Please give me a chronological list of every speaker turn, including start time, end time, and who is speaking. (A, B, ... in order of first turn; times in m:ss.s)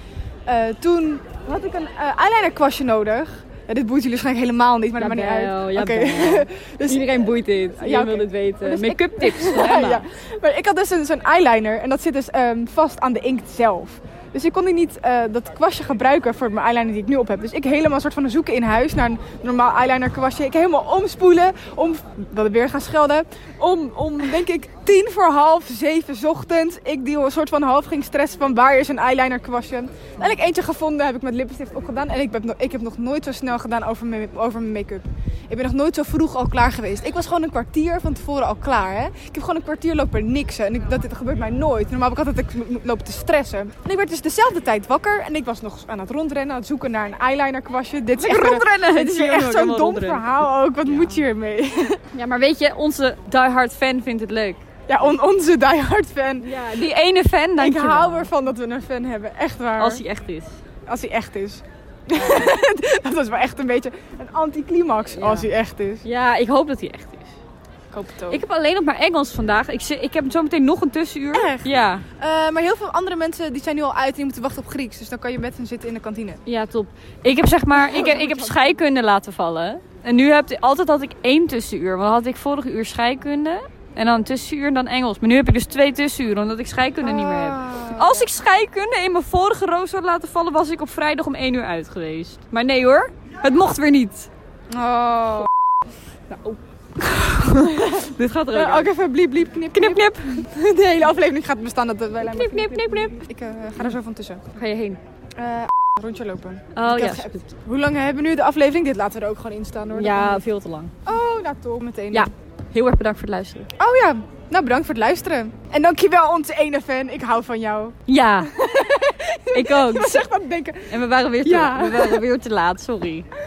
0:00.5-0:52.0 A
0:05.0-0:10.1 B
0:48.2-0:51.2 B
0:52.1-0:54.6 B
0:54.9-0:56.5 A
0:56.4-0:58.3 B
0:57.6-1:00.0 A
0:59.8-1:00.6 B
1:00.9-1:06.0 A
1:02.1-1:02.6 B
1:05.2-1:05.5 B
1:06.0-1:07.3 B
1:07.9-1:08.4 A
1:08.3-1:12.1 B
1:11.3-1:16.4 A
1:16.5-1:34.3 B
1:17.5-1:18.8 A
1:27.0-1:28.3 A
1:34.7-1:35.5 A
1:36.3-1:39.0 B
1:37.7-1:44.4 A
1:39.7-1:40.4 B
1:42.2-1:43.2 B
1:44.5-1:45.0 B
1:45.4-1:50.4 A
1:46.7-1:47.4 B
1:49.9-1:50.9 B
1:51.0-1:52.3 A
1:52.1-1:53.7 B
1:53.8-2:02.3 A
1:58.1-1:58.5 B
1:59.5-2:00.3 B
2:00.9-2:03.3 B